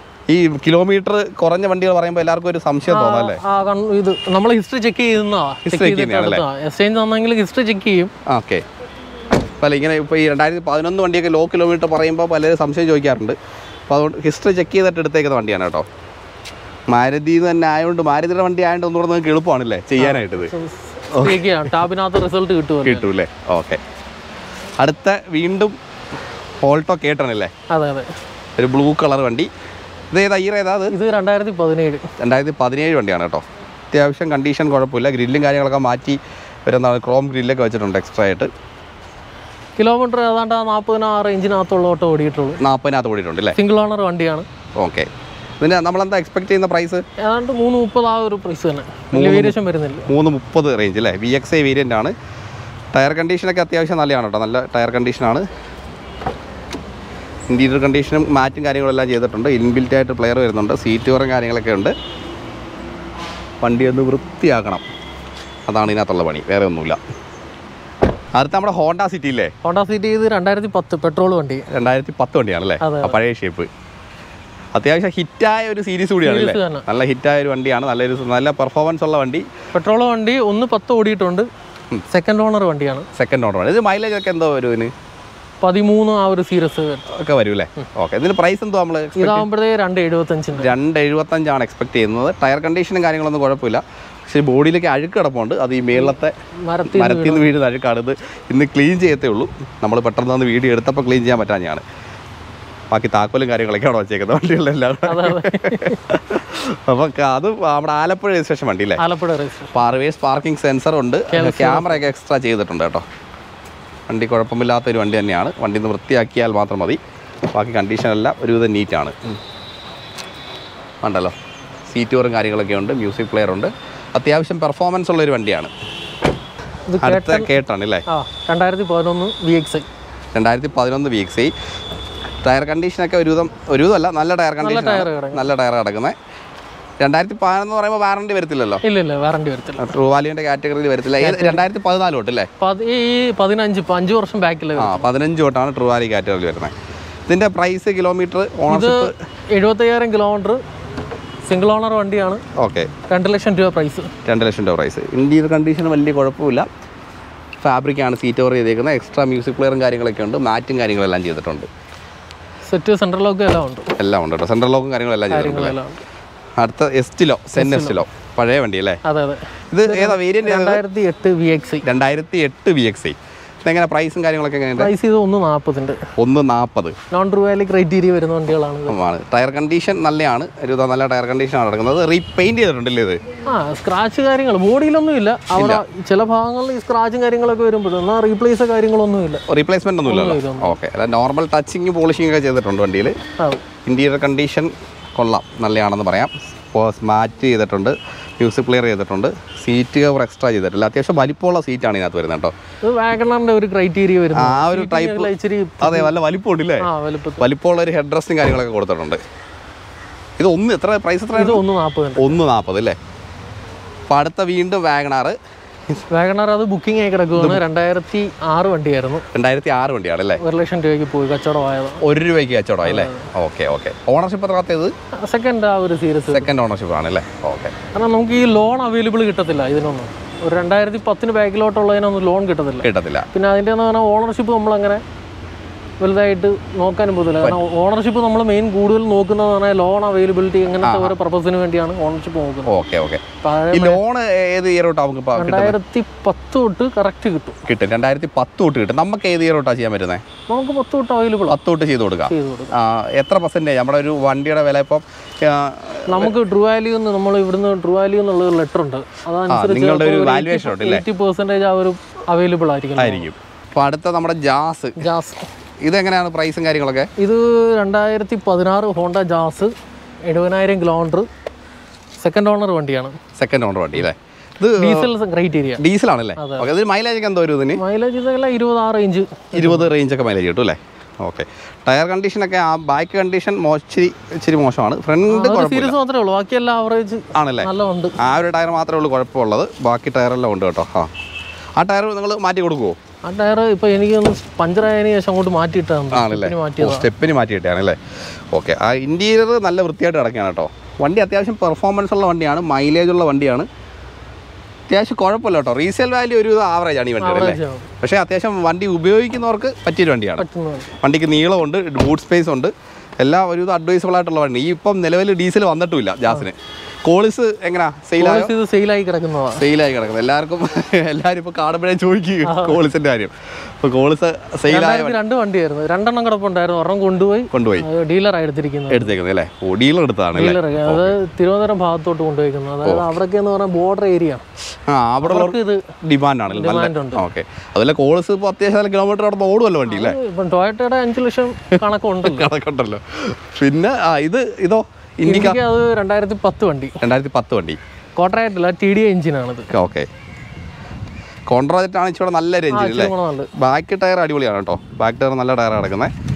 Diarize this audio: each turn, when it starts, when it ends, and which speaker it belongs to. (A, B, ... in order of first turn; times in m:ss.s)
0:00.3-0:03.4 A
0:02.9-0:08.1 B
0:05.7-0:06.4 A
0:08.2-0:08.6 A
0:09.6-0:13.4 A
0:13.9-0:15.8 A
0:16.9-0:20.5 A
0:20.0-0:23.1 B
0:21.1-0:21.6 A
0:22.9-0:23.8 A
0:24.8-0:25.8 A
0:26.6-0:27.5 A
0:27.7-0:28.1 B
0:28.6-0:29.5 A
0:30.1-0:30.9 A
0:30.9-0:32.1 B
0:32.2-0:38.5 A
0:39.8-0:42.6 B
0:42.6-0:43.6 A
0:43.6-0:44.5 B
0:44.8-0:45.1 A
0:45.6-0:47.0 A
0:47.2-0:50.1 B
0:49.1-0:52.2 A
0:52.9-0:55.4 A
0:57.5-1:01.9 A
1:03.6-1:04.8 A
1:05.7-1:07.0 A
1:08.4-1:09.5 A
1:09.6-1:11.7 B
1:11.7-1:13.7 A
1:12.8-1:13.2 B
1:14.7-1:19.5 A
1:16.2-1:16.9 B
1:19.7-1:21.5 B
1:22.1-1:23.1 B
1:23.1-1:24.9 A
1:25.6-1:27.1 B
1:27.1-1:29.5 A
1:29.2-1:30.7 B
1:30.6-1:36.3 A
1:35.9-1:37.5 B
1:36.9-1:41.8 A
1:42.9-1:49.0 A
1:45.1-1:46.0 B
1:49.0-1:49.8 B
1:49.7-1:53.0 A
1:51.3-1:52.0 B
1:54.1-1:59.4 A
2:01.0-2:01.4 A
2:01.9-2:05.7 A
2:06.9-2:07.5 B
2:07.0-2:08.0 A
2:08.1-2:09.9 B
2:10.3-2:11.5 A
2:12.4-2:16.2 A
2:14.6-2:15.5 B
2:17.0-2:18.8 A
2:18.8-2:19.9 B
2:19.8-2:22.5 A
2:21.2-2:21.6 B
2:22.6-2:25.1 B
2:24.8-2:26.7 A
2:27.3-2:29.1 A
2:28.7-2:30.6 B
2:31.5-2:32.4 B
2:32.6-2:32.9 A
2:33.1-2:34.1 B
2:34.2-2:36.7 A
2:37.6-2:41.7 A
2:42.7-2:44.0 B
2:44.0-2:45.8 A
2:45.3-2:46.0 B
2:46.6-2:49.0 A
2:47.6-2:48.0 B
2:49.0-2:51.8 B
2:49.7-2:50.8 A
2:51.8-2:54.9 A
2:54.8-2:56.1 B
2:56.2-2:57.0 A
2:57.1-2:59.0 B
2:58.9-3:03.2 A
3:03.5-3:09.4 B
3:05.5-3:05.8 A
3:09.5-3:13.2 A
3:10.0-3:10.8 B
3:13.8-3:22.5 A
3:22.8-3:26.1 B
3:24.3-3:29.2 A
3:26.8-3:27.4 B
3:30.4-3:31.6 A
3:31.4-3:32.3 B
3:32.2-3:33.0 A
3:34.1-3:35.4 A
3:36.1-3:39.2 B
3:37.4-3:37.6 A
3:39.3-3:40.4 A
3:40.4-3:42.0 B
3:42.0-3:44.9 A
3:42.8-3:43.3 B
3:45.2-3:46.5 B
3:46.3-3:47.8 A
3:47.9-3:55.0 B
3:52.8-3:53.3 A
3:56.0-4:02.7 B
4:00.8-4:01.1 A
4:02.7-4:05.8 A
4:03.4-4:04.0 B
4:05.4-4:07.6 B
4:07.7-4:10.2 A
4:10.5-4:11.6 B
4:11.5-4:16.3 A
4:12.2-4:12.7 B
4:16.1-4:23.3 B
4:19.5-4:21.0 A
4:23.0-4:25.1 A
4:25.0-4:25.5 B
4:25.8-4:27.1 A
4:27.2-4:29.7 B
4:30.3-4:31.3 B
4:32.2-4:33.2 B
4:33.4-4:35.1 A
4:34.8-4:35.8 B
4:35.8-4:37.8 A
4:36.4-4:36.7 B
4:37.8-4:39.9 B
4:39.5-4:46.0 A
4:45.3-4:48.2 B
4:47.4-4:51.1 A
4:51.8-4:53.0 A
4:53.2-4:57.1 B
4:56.1-4:58.0 A
4:58.5-5:03.7 A
5:04.9-5:10.4 A
5:07.2-5:07.9 B
5:10.4-5:10.9 B
5:11.0-5:18.5 A
5:18.2-5:19.7 B
5:19.5-5:25.2 A
5:22.4-5:22.8 B
5:24.7-5:29.2 B
5:27.5-5:27.9 A
5:28.9-5:31.2 A
5:30.4-5:34.4 B
5:32.8-5:33.2 A
5:34.9-5:40.2 A
5:35.2-5:35.9 B
5:36.5-5:37.2 B
5:39.9-5:42.5 B
5:42.2-5:45.6 A
5:45.2-5:47.0 B
5:47.0-5:47.8 A
5:48.2-5:49.7 B
5:49.7-5:50.1 A
5:51.5-5:56.1 A
5:52.7-5:53.5 B